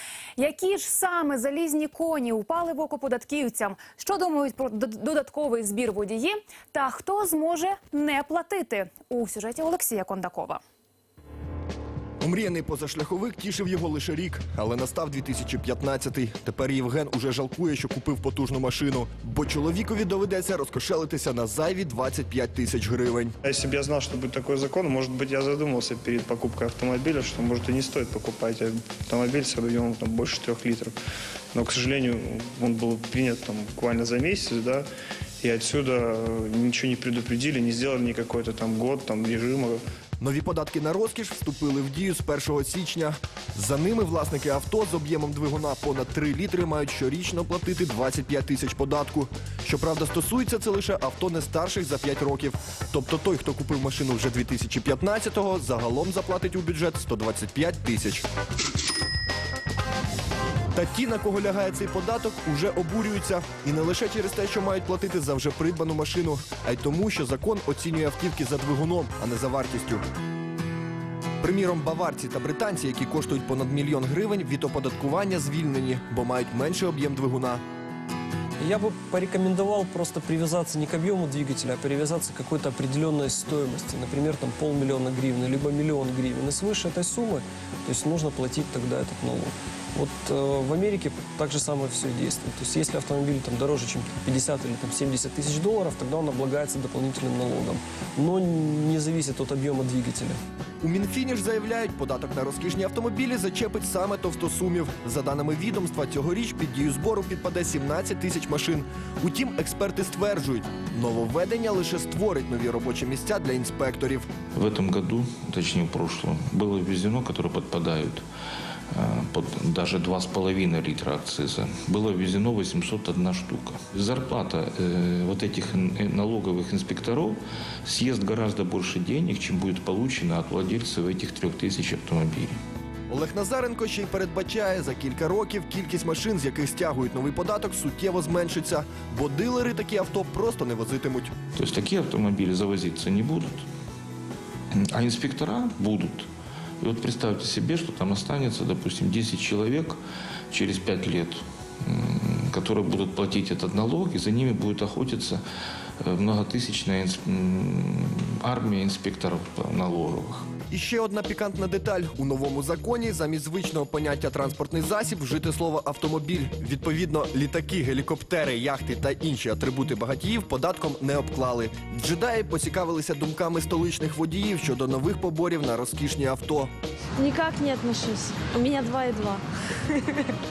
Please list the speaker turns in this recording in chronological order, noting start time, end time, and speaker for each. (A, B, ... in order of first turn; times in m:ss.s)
0:00.4-0:10.6 A
0:12.2-0:23.3 B
0:23.4-0:31.0 C
0:31.5-0:34.9 C
0:35.4-0:39.8 C
0:40.2-0:58.2 B
1:00.7-1:10.0 B
1:11.4-1:17.6 B
1:18.6-1:40.4 D
1:40.8-1:54.3 B
1:54.6-1:58.2 E
1:58.9-2:12.6 E
2:13.1-2:21.3 B
2:21.6-2:23.7 E
2:24.8-2:26.3 E
2:26.8-2:30.0 E
2:30.5-2:35.4 E
2:36.0-2:40.5 E
2:40.7-2:56.7 B
2:57.2-3:00.3 F